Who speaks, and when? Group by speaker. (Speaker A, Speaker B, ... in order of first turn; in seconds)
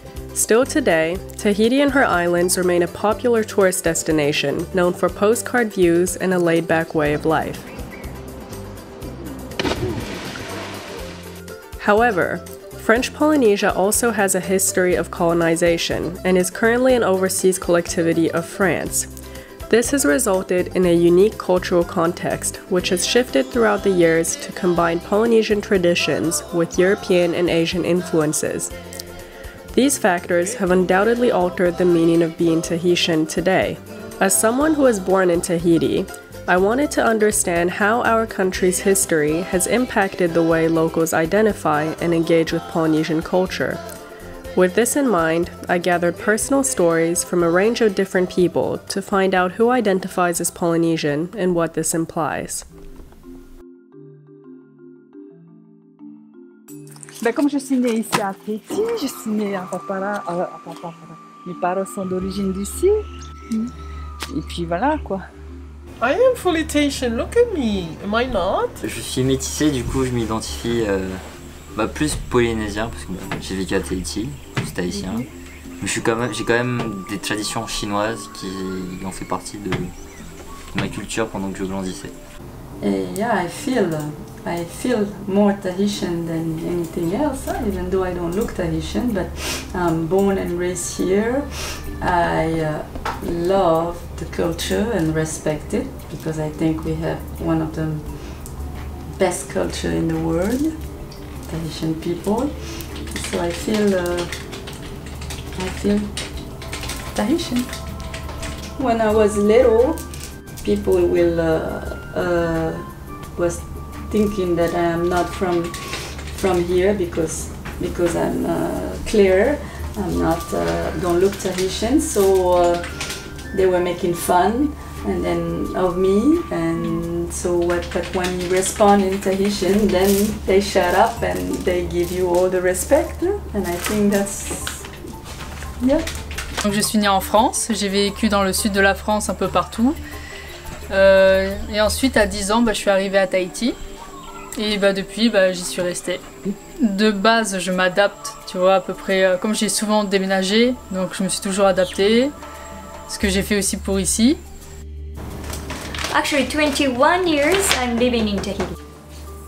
Speaker A: 0.3-7.7, 11.8-19.1, 19.7-28.7, 29.7-43.8, 44.5-52.7
Speaker B: 57.2-63.7, 64.3-65.3
Speaker C: 66.0-68.8
Speaker D: 68.8-71.2, 71.7-75.3, 75.8-79.9, 80.7-82.1
Speaker E: 82.8-100.8, 101.5-104.3, 105.5-106.1, 108.8-134.9
Speaker F: 107.2-107.7, 136.7-140.0, 140.9-143.8, 144.6-146.2, 146.8-152.3, 153.1-154.4
Speaker G: 156.1-158.8